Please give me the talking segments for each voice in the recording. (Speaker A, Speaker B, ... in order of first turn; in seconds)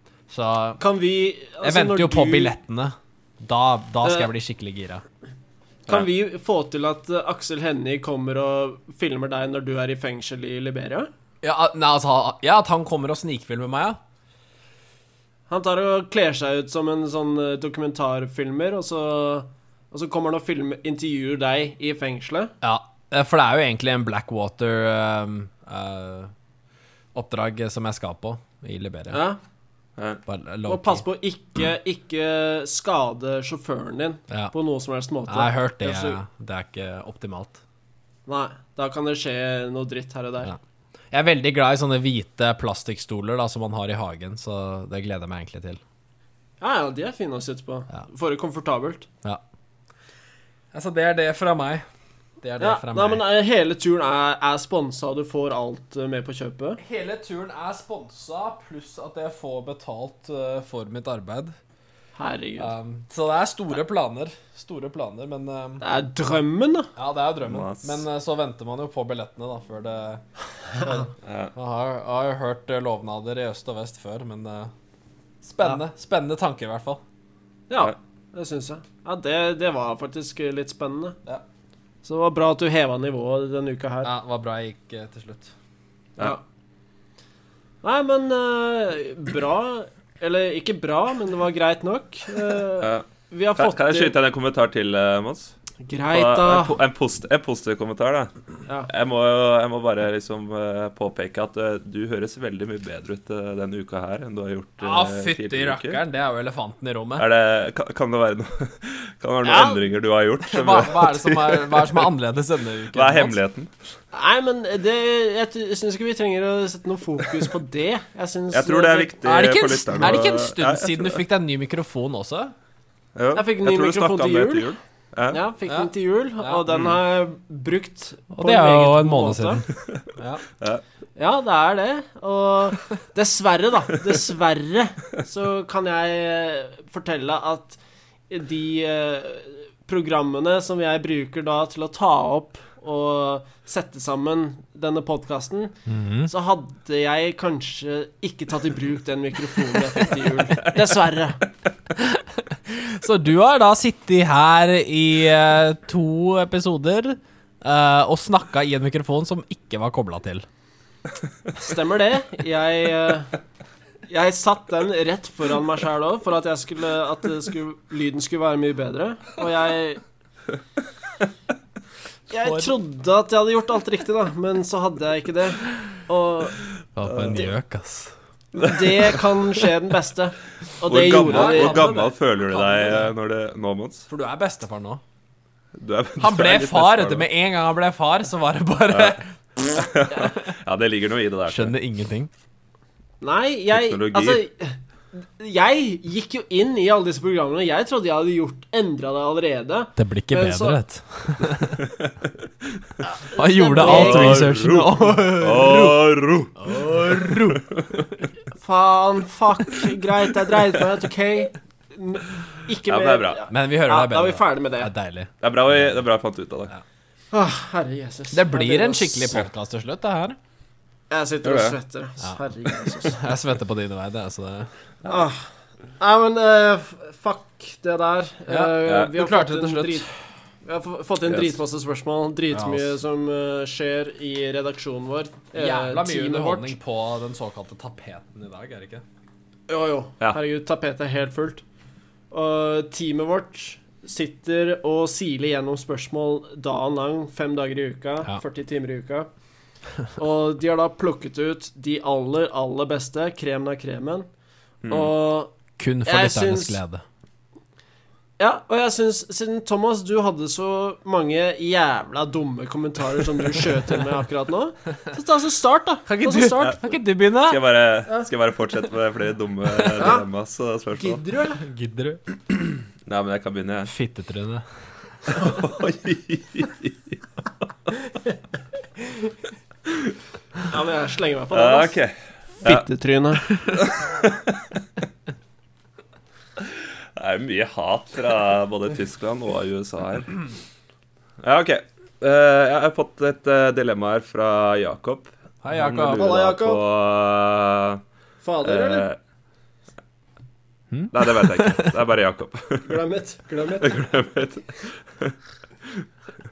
Speaker A: 0.3-0.8, 1.6-5.0, 11.4-14.0, 22.6-26.3, 27.1-29.2, 30.3-31.0, 35.3-37.6, 41.1-45.8, 50.7-51.8, 52.4-53.2, 56.8-61.5, 62.6-65.8, 67.0-74.7, 75.4-77.0, 84.0-85.5, 104.8-107.2, 110.4-113.4, 119.2-122.5, 128.3-130.4, 145.9-146.3, 151.9-160.4, 172.4-172.7, 176.9-178.1, 181.1-182.1, 184.1-185.0, 186.2-189.3, 191.5-192.3, 199.9-201.8, 203.3-205.9, 206.6-208.1, 213.5-215.3, 218.3-220.4, 223.1-224.7, 228.5-230.1, 232.5-233.0, 235.5-239.0, 255.8-257.0, 266.1-267.6, 271.6-272.2, 273.9-274.6, 295.6-296.3, 300.9-302.0
Speaker B: 0.8-2.5, 4.0-4.3, 5.9-11.1, 15.5-22.5, 29.1-29.4, 30.7-36.2, 38.3-40.5, 46.6-49.1, 52.6-56.8, 62.1-62.7, 65.8-66.9, 77.7-81.2, 82.0-84.1, 87.8-94.1, 95.8-96.8, 109.4-109.9, 114.1-119.2, 123.3-124.8, 125.3-129.6, 131.2-137.8, 138.3-151.4, 161.6-163.3, 164.1-170.0, 172.3-176.7, 178.6-183.0, 193.2-200.8, 203.2-204.6, 205.2-205.9, 208.6-214.9, 217.3-219.4, 221.1-223.2, 225.1-225.4, 226.0-230.1, 230.6-236.7, 239.7-241.6, 242.3-249.3, 250.2-254.3, 254.9-255.5, 256.0-256.8, 258.4-266.9, 270.0-270.3, 271.0-271.6, 280.7-282.0, 282.6-283.7, 296.0-296.8, 298.4-299.1, 302.9-304.0
Speaker C: 30.0-30.2, 67.4-68.0, 71.2-71.5, 92.8-93.0, 93.6-95.5, 96.1-98.3, 98.8-106.0, 107.2-112.1, 112.9-113.7, 118.5-121.2, 123.1-125.4, 177.1-177.4, 178.6-179.2, 180.8-184.1, 185.8-187.3, 188.9-191.7, 193.7-194.4, 201.8-202.8, 203.8-208.0, 212.8-213.4, 215.4-216.7, 221.4-221.8, 228.8-229.1, 231.3-231.6, 254.8-255.1, 267.4-271.2, 273.0-273.9, 275.3-277.2, 279.9-280.1, 281.5-282.9, 283.7-284.8, 286.6-290.4, 291.4-298.0, 298.6-299.2, 301.1-303.0, 303.7-306.0